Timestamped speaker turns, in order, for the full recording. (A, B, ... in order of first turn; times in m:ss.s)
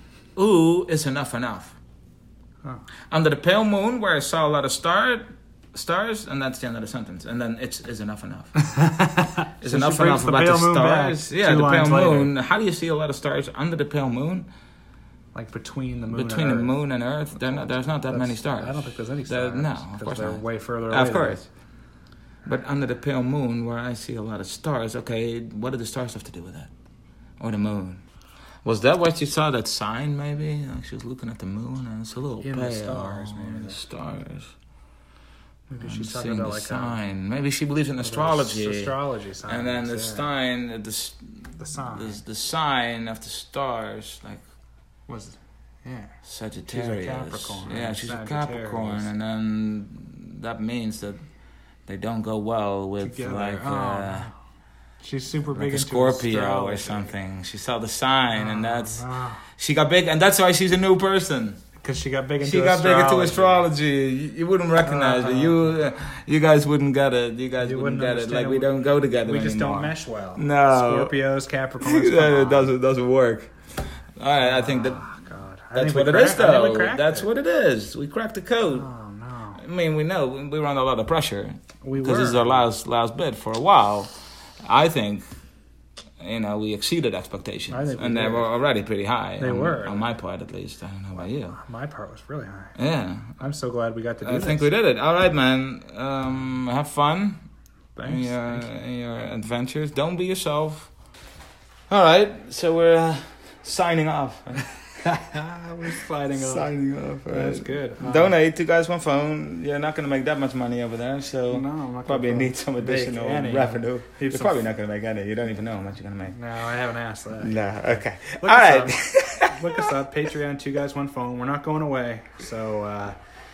0:00.4-0:01.8 A
0:03.1-0:08.5 A
0:08.6-0:12.3 B
0:09.6-0:14.5 A
0:15.3-0:16.7 B
0:16.1-0:21.5 A
0:17.5-0:21.4 B
0:22.4-0:26.7 A
0:27.4-0:28.0 A
0:28.6-0:34.5 A
0:32.4-0:33.8 B
0:35.7-0:37.0 B
0:35.8-0:44.4 A
0:38.0-0:40.3 B
0:41.6-0:42.2 B
0:45.1-0:46.2 B
0:46.2-0:51.2 A
0:46.7-0:49.1 B
0:51.8-0:54.3 A
0:53.0-0:54.3 B
0:55.0-0:57.1 B
0:55.5-0:59.0 A
0:58.3-0:59.4 B
0:59.5-1:01.6 A
1:01.8-1:03.7 B
1:02.4-1:11.1 A
1:04.8-1:05.7 B
1:07.6-1:12.7 B
1:11.8-1:13.5 A
1:14.2-1:15.0 A
1:14.4-1:17.3 B
1:15.7-1:18.9 A
1:18.6-1:19.6 B
1:19.6-1:24.1 A
1:21.8-1:22.7 B
1:24.6-1:25.2 A
1:26.2-1:31.6 A
1:27.7-1:28.5 B
1:29.4-1:30.1 B
1:31.1-1:32.7 B
1:32.8-1:33.3 A
1:33.4-1:34.7 B
1:34.2-1:37.4 A
1:38.0-1:38.7 B
1:38.0-1:40.9 A
1:41.9-1:44.8 A
1:45.0-1:46.7 B
1:46.3-1:56.4 A
1:47.2-1:48.4 B
1:51.5-1:54.6 B
1:56.3-2:03.2 B
1:57.4-2:00.0 A